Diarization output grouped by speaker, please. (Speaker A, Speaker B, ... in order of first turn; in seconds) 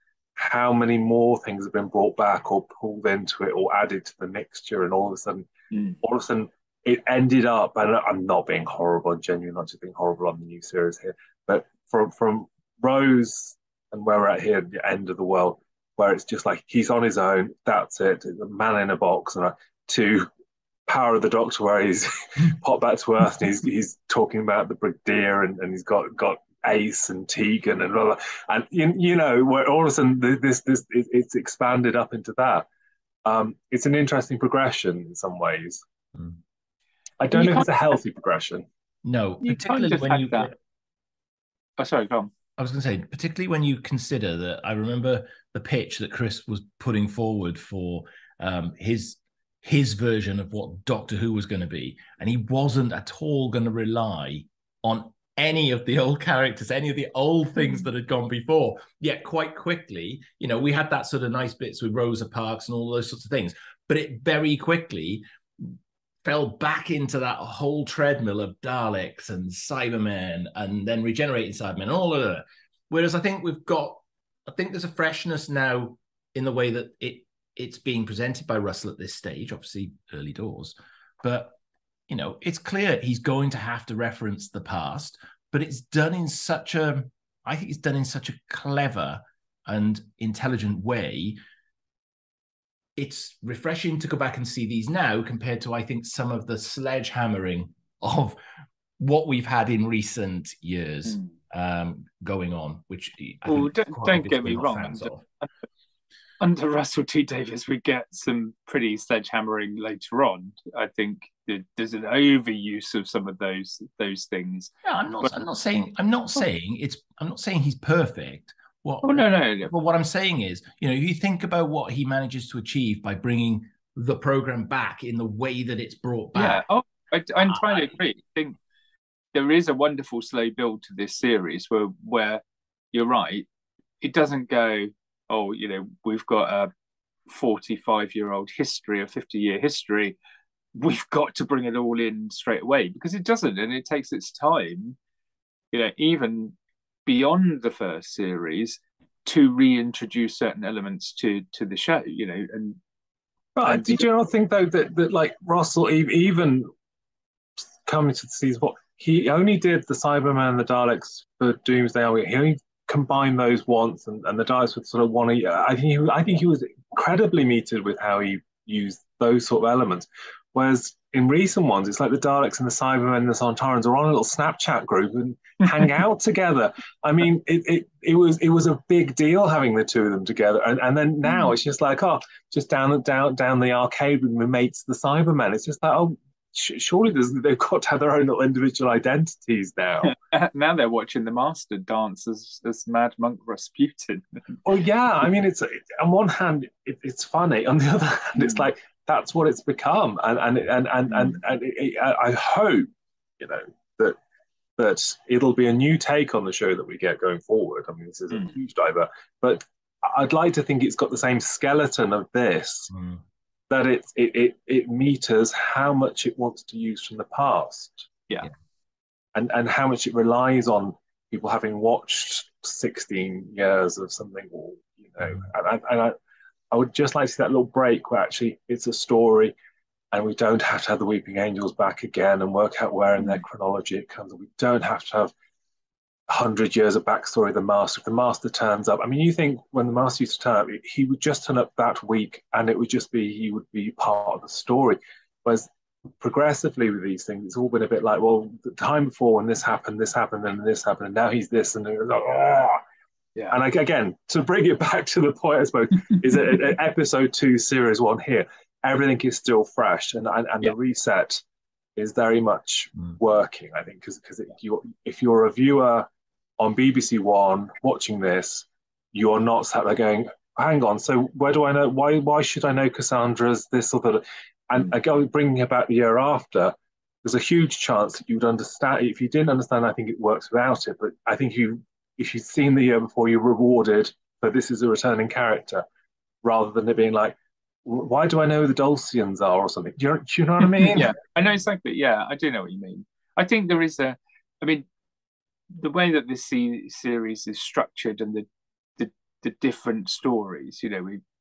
Speaker A: 0.4-5.5, 6.0-20.3, 20.9-32.7, 33.2-35.8, 37.2-38.6, 153.6-156.7, 157.8-190.1, 194.6-202.9, 203.4-204.2, 204.8-212.9, 213.7-218.1, 219.3-226.1, 226.7-229.5, 230.1-235.3, 236.3-252.8, 253.5-261.4, 261.9-285.8, 286.4-291.1
Speaker B: 5.7-6.0, 37.3-37.7, 39.4-40.5, 41.8-42.3, 103.5-105.5, 106.4-114.7, 119.0-119.7, 126.3-128.6, 129.3-133.5, 134.0-136.7, 137.3-140.2, 140.8-145.0, 145.7-146.5, 147.1-152.8, 153.6-154.0, 190.0-194.2, 290.8-294.9, 295.7-298.4, 299.0-301.2
Speaker C: 39.0-40.5, 42.6-81.5, 82.1-91.4, 93.0-98.4, 99.0-105.2, 114.8-126.6, 127.5-127.9, 212.9-213.2